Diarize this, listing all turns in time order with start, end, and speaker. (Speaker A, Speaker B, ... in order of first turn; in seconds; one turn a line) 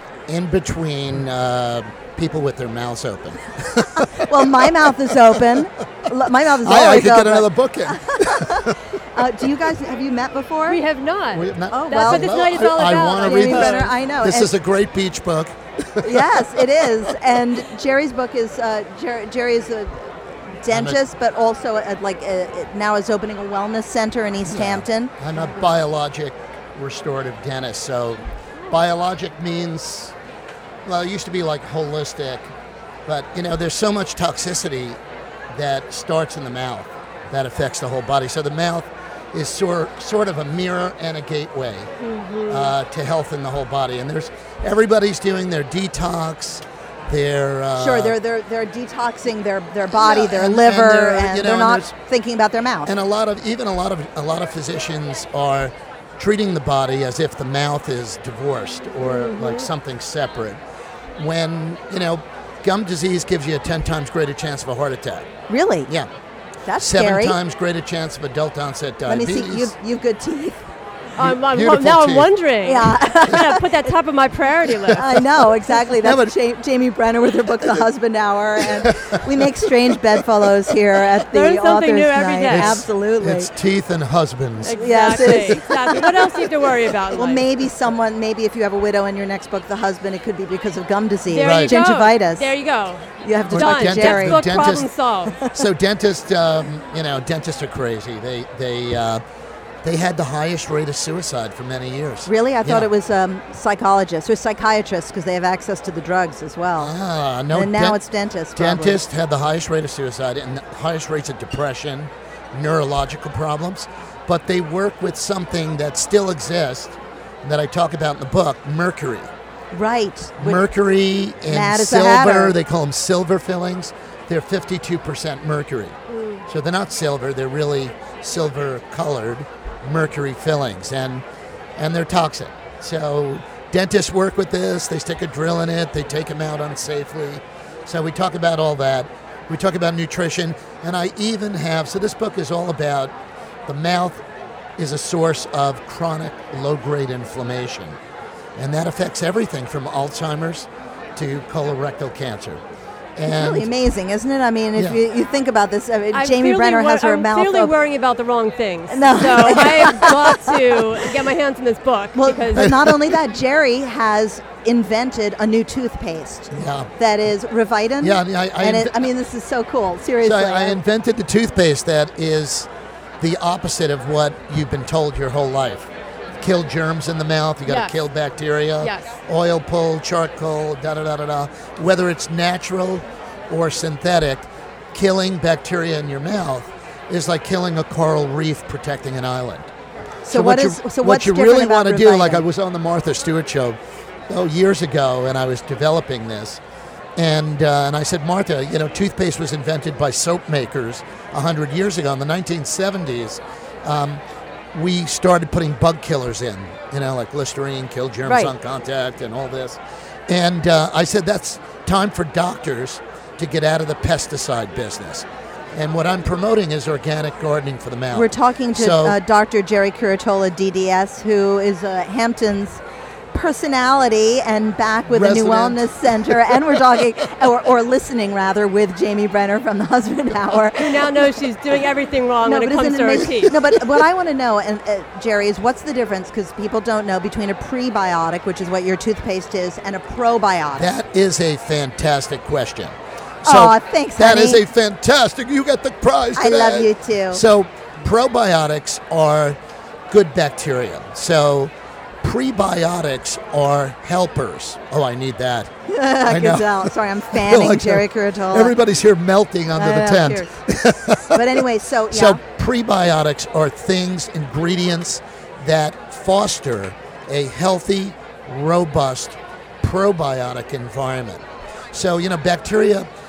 Speaker A: 0.3-4.9
Speaker B: 4.3-10.8
Speaker A: 6.6-8.5
Speaker C: 10.7-13.8
Speaker A: 11.3-16.6
Speaker B: 11.7-12.4
Speaker B: 13.2-14.5
Speaker B: 16.0-25.1
Speaker A: 20.7-21.0
Speaker A: 24.4-30.1
Speaker A: 30.9-32.5
Speaker A: 33.1-35.0
Speaker A: 35.5-41.9
Speaker C: 42.0-42.7
Speaker A: 42.5-48.2
Speaker B: 47.8-52.9
Speaker A: 49.9-51.9
Speaker A: 52.9-60.6
Speaker C: 59.0-59.6
Speaker A: 61.2-65.3
Speaker B: 65.5-65.9
Speaker B: 66.7-67.4
Speaker A: 66.8-69.7
Speaker B: 69.0-70.6
Speaker A: 71.2-72.4
Speaker C: 71.2-75.0
Speaker B: 72.6-73.8
Speaker A: 74.7-76.3
Speaker B: 74.9-83.5
Speaker A: 78.6-79.2
Speaker C: 81.3-82.8
Speaker A: 82.5-85.6
Speaker C: 84.6-87.4
Speaker B: 84.7-86.4
Speaker B: 87.1-92.5
Speaker C: 91.3-95.4
Speaker A: 91.3-91.8
Speaker B: 93.2-94.5
Speaker A: 93.5-99.2
Speaker B: 95.4-95.6
Speaker A: 99.8-102.9
Speaker B: 102.2-106.9
Speaker A: 106.8-108.0
Speaker B: 107.5-109.0
Speaker A: 108.5-119.3
Speaker B: 119.7-120.7
Speaker A: 120.4-131.2
Speaker B: 121.5-122.5
Speaker C: 126.1-126.4
Speaker A: 131.8-143.1
Speaker A: 143.7-144.2
Speaker A: 144.8-148.0
Speaker A: 148.6-152.6
Speaker A: 153.2-153.7
Speaker B: 153.2-157.7
Speaker C: 156.1-162.7
Speaker B: 158.9-160.6
Speaker B: 162.1-170.8
Speaker A: 162.6-163.0
Speaker A: 166.5-166.9
Speaker A: 168.0-169.0
Speaker A: 170.2-172.7
Speaker A: 173.2-189.7
Speaker C: 177.7-177.9
Speaker C: 178.8-179.1
Speaker B: 190.2-192.4
Speaker A: 190.3-193.8
Speaker A: 194.3-196.6
Speaker A: 197.2-204.2
Speaker A: 204.7-219.2
Speaker B: 208.2-208.5
Speaker B: 218.1-222.8
Speaker B: 223.3-231.1
Speaker A: 225.1-226.8
Speaker C: 230.8-233.5
Speaker B: 232.4-240.9
Speaker A: 240.8-249.6
Speaker B: 243.4-244.6
Speaker B: 246.3-247.4
Speaker A: 250.1-251.7
Speaker A: 252.2-255.7
Speaker B: 255.9-258.8
Speaker A: 256.3-273.1
Speaker B: 259.7-262.4